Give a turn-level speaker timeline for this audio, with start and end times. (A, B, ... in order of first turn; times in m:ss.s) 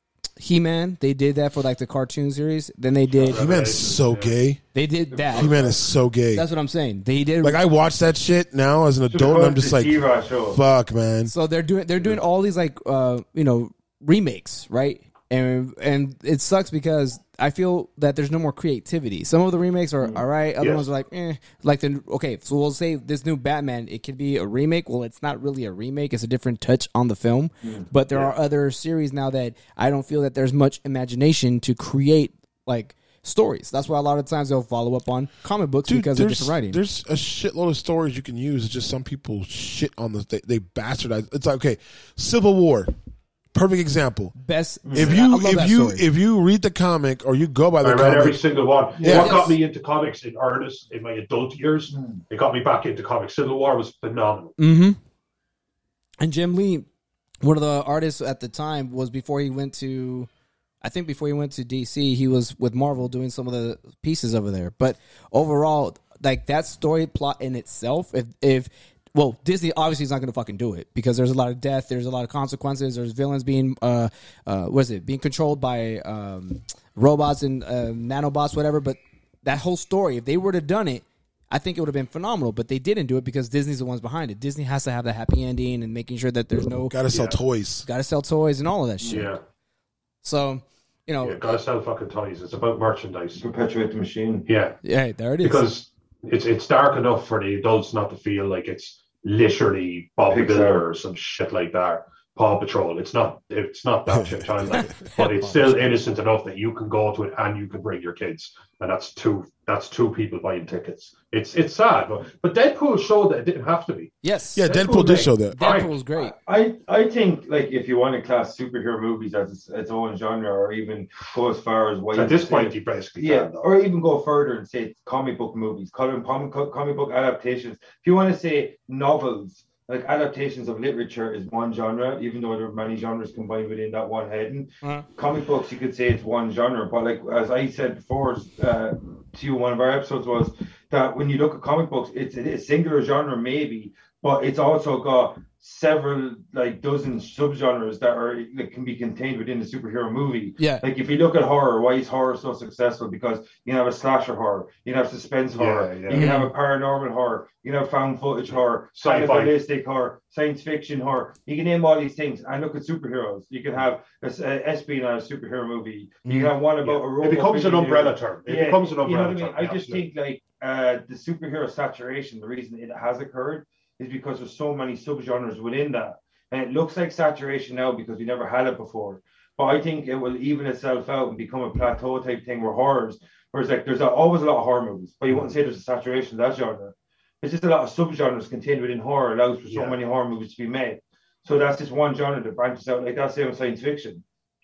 0:00.4-0:03.5 A
0:03.1-0:04.4 B
0:03.3-0:04.6 C
0:04.7-0:05.5 A
0:05.1-0:05.8 D
0:05.3-0:06.5 C
0:06.3-0:07.6 A
0:07.4-0:11.3 C
0:09.1-0:10.6 D
0:11.3-0:36.8 A
0:20.6-0:20.9 B
0:28.1-0:28.4 B
0:35.9-0:42.9 C
0:43.5-0:44.4 C
0:44.4-0:46.1 A
0:44.9-0:45.2 D
0:44.9-0:49.4 C
0:47.8-0:54.6 B
0:49.0-0:49.3 D
0:49.1-0:49.6 A
0:51.9-0:52.2 D
0:54.6-0:55.0 A
0:56.2-0:56.9 A
0:57.4-1:00.3 A
1:00.8-1:27.0 A
1:26.9-1:27.9 C
1:27.1-1:27.4 B
1:27.8-1:29.3 A
1:29.1-1:29.4 B
1:30.2-1:31.6 A
1:31.2-1:33.4 B
1:33.4-1:34.5 D
1:34.5-1:34.8 B
1:34.8-1:35.7 A
1:35.4-1:54.1 B
1:40.3-1:40.8 D
1:44.1-1:44.9 C
1:44.7-1:46.0 A
1:54.2-1:56.4 A
1:54.6-1:55.6 C
1:54.9-1:55.3 D
1:55.6-1:55.9 B
1:56.2-3:14.2 D
2:02.1-2:03.6 B
2:30.6-2:30.8 A
2:35.5-2:36.2 B
2:36.1-2:36.5 A
2:39.0-2:39.5 B
2:46.3-2:46.5 A
2:46.8-2:50.0 B
3:09.7-3:10.0 B